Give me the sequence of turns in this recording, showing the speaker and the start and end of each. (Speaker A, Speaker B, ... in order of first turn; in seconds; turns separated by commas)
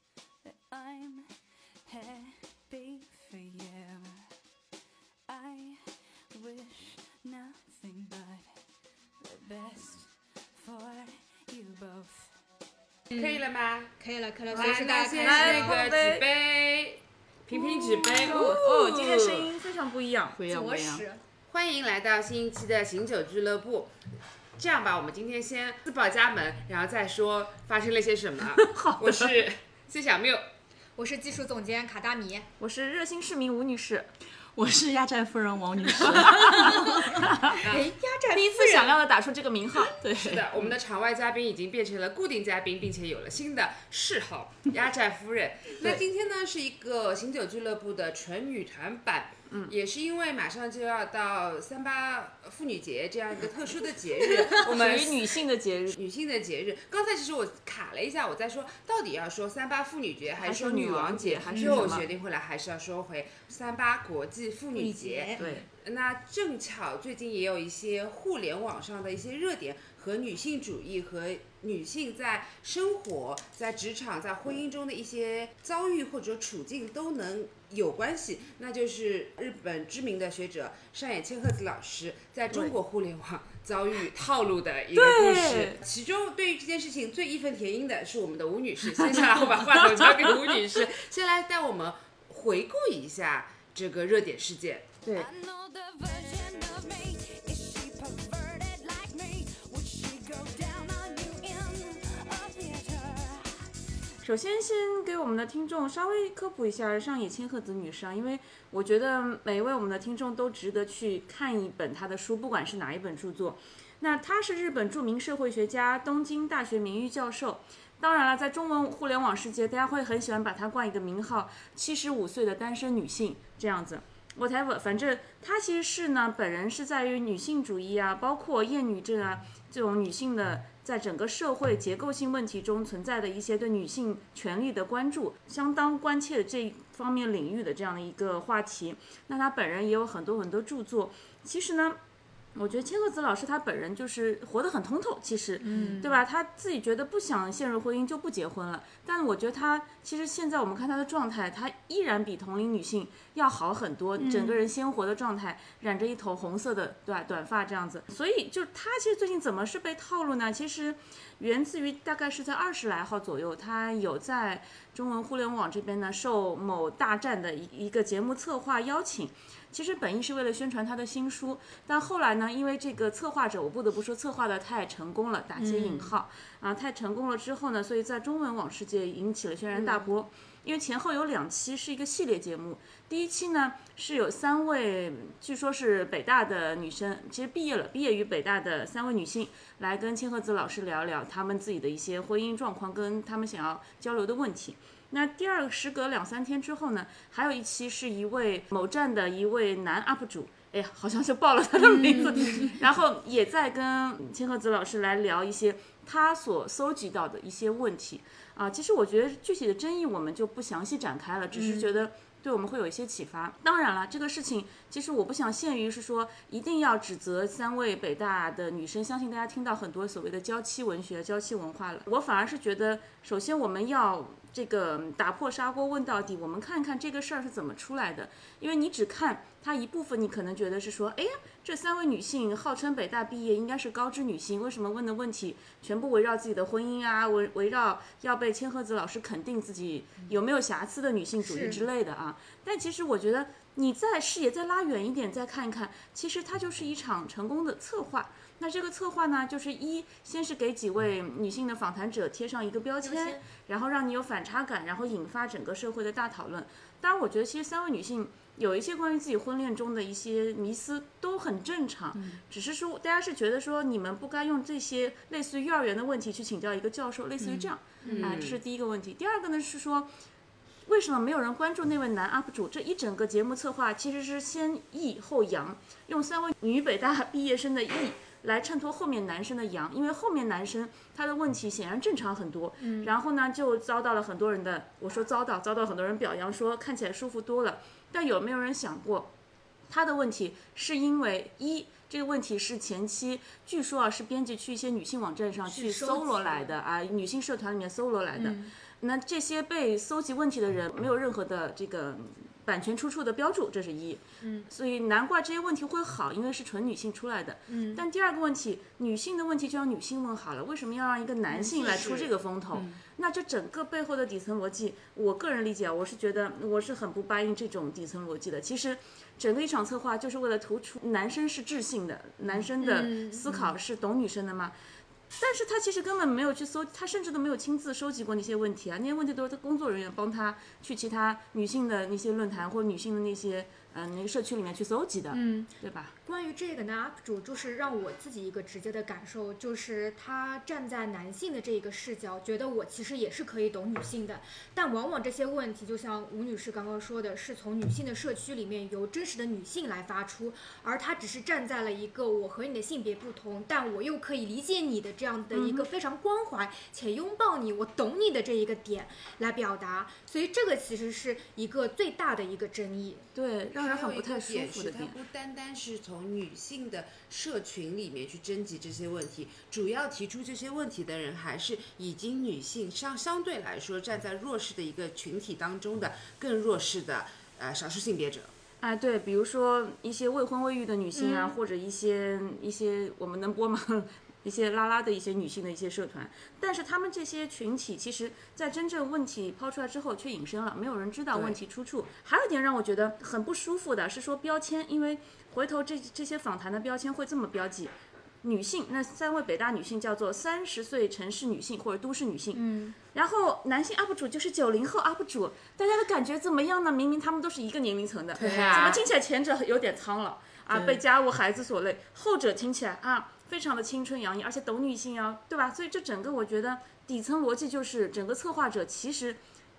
Speaker A: 0.4-4.3, Speaker A: 5.3-8.6, Speaker A: 9.2-12.4, Speaker B: 13.1-13.4, Speaker C: 13.1-13.9, Speaker B: 14.0-15.8, Speaker C: 14.5-19.5, Speaker D: 15.2-16.2, Speaker D: 17.5-20.4, Speaker E: 20.3-21.0, Speaker B: 20.4-21.2, Speaker C: 21.5-23.9, Speaker C: 24.6-30.4, Speaker D: 28.6-29.3, Speaker B: 31.0-32.5, Speaker D: 32.6-34.1, Speaker E: 34.5-37.2, Speaker D: 35.9-37.6, Speaker B: 36.4-39.0, Speaker D: 38.3-40.7, Speaker C: 40.2-94.9, Speaker D: 54.3-56.0, Speaker D: 60.4-62.0, Speaker B: 61.5-61.8, Speaker B: 64.7-65.5, Speaker D: 65.4-65.6, Speaker D: 84.9-85.8, Speaker D: 88.9-90.6, Speaker D: 95.0-95.3, Speaker A: 95.1-103.7, Speaker D: 104.2-142.0, Speaker D: 142.5-270.1, Speaker B: 145.6-146.2, Speaker E: 145.7-146.0, Speaker B: 154.2-154.6, Speaker B: 175.6-176.1, Speaker C: 179.7-180.0, Speaker B: 201.8-202.7, Speaker B: 211.5-212.1, Speaker B: 241.4-241.8, Speaker B: 253.0-253.4, Speaker E: 262.1-262.4, Speaker E: 267.4-267.7, Speaker B: 268.0-268.4, Speaker C: 268.1-268.6, Speaker D: 270.8-289.3, Speaker B: 282.8-283.1, Speaker D: 289.9-324.8, Speaker B: 295.7-296.8, Speaker B: 298.4-298.7, Speaker B: 304.4-304.7, Speaker B: 307.7-308.0, Speaker B: 311.5-312.1, Speaker C: 311.8-312.3, Speaker E: 312.7-313.0, Speaker B: 322.8-323.4, Speaker D: 325.3-336.1, Speaker B: 335.3-335.7, Speaker B: 336.2-363.2, Speaker D: 355.5-355.9, Speaker D: 363.3-365.1, Speaker C: 363.8-378.5, Speaker D: 378.8-419.4, Speaker B: 381.1-381.6, Speaker C: 391.3-391.6, Speaker B: 402.5-402.9, Speaker C: 408.4-409.0, Speaker E: 410.7-411.0